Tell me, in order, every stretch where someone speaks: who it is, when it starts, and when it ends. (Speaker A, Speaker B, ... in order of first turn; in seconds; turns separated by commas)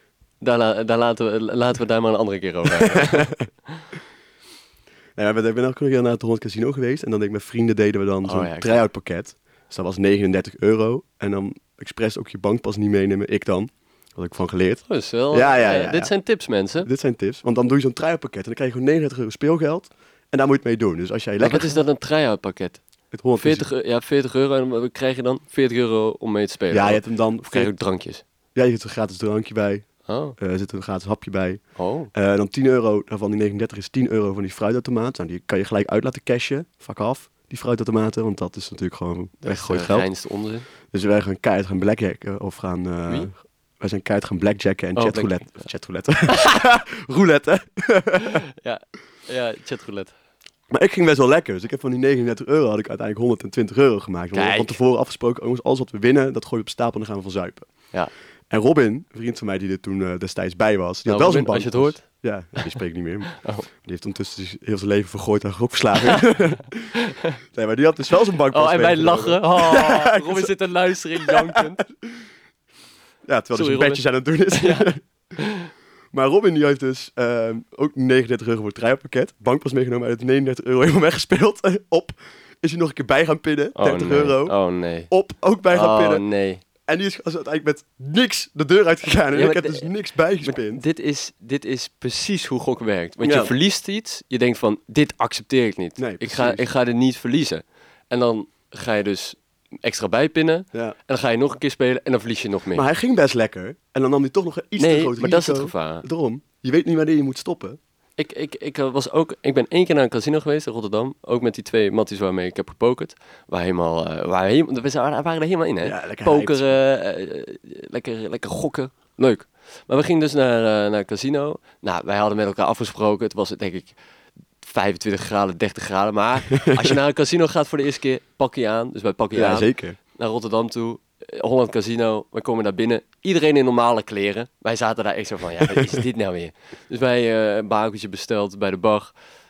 Speaker A: 0.4-3.8, Speaker B: 2.8-3.4, Speaker B: 5.2-16.1, Speaker A: 8.2-8.8, Speaker A: 14.9-16.9, Speaker B: 16.8-21.8, Speaker A: 21.4-22.8, Speaker B: 23.1-23.7, Speaker A: 23.4-28.2, Speaker B: 26.7-27.7, Speaker B: 28.6-31.6, Speaker A: 30.1-30.4, Speaker A: 31.8-32.1, Speaker B: 32.1-40.1, Speaker A: 39.4-40.7, Speaker B: 40.9-48.4, Speaker A: 45.0-45.7, Speaker A: 48.2-50.1, Speaker B: 50.7-57.7, Speaker A: 54.3-54.8, Speaker B: 58.5-67.0, Speaker A: 61.1-62.0, Speaker A: 63.3-63.7, Speaker A: 67.0-67.4, Speaker B: 67.5-70.5, Speaker A: 68.5-71.8, Speaker B: 71.2-72.2, Speaker B: 73.3-75.0, Speaker A: 73.5-75.7, Speaker B: 76.1-84.6, Speaker A: 83.8-85.1, Speaker B: 85.1-86.2, Speaker A: 85.7-86.6, Speaker B: 86.8-90.8, Speaker A: 89.3-89.9, Speaker A: 90.4-102.8, Speaker B: 93.2-93.5, Speaker B: 96.0-96.7, Speaker B: 102.7-107.8, Speaker A: 104.8-106.0, Speaker A: 108.2-124.0, Speaker B: 115.8-116.8, Speaker A: 124.6-139.1, Speaker B: 126.7-126.9, Speaker B: 129.3-130.0, Speaker B: 135.7-136.0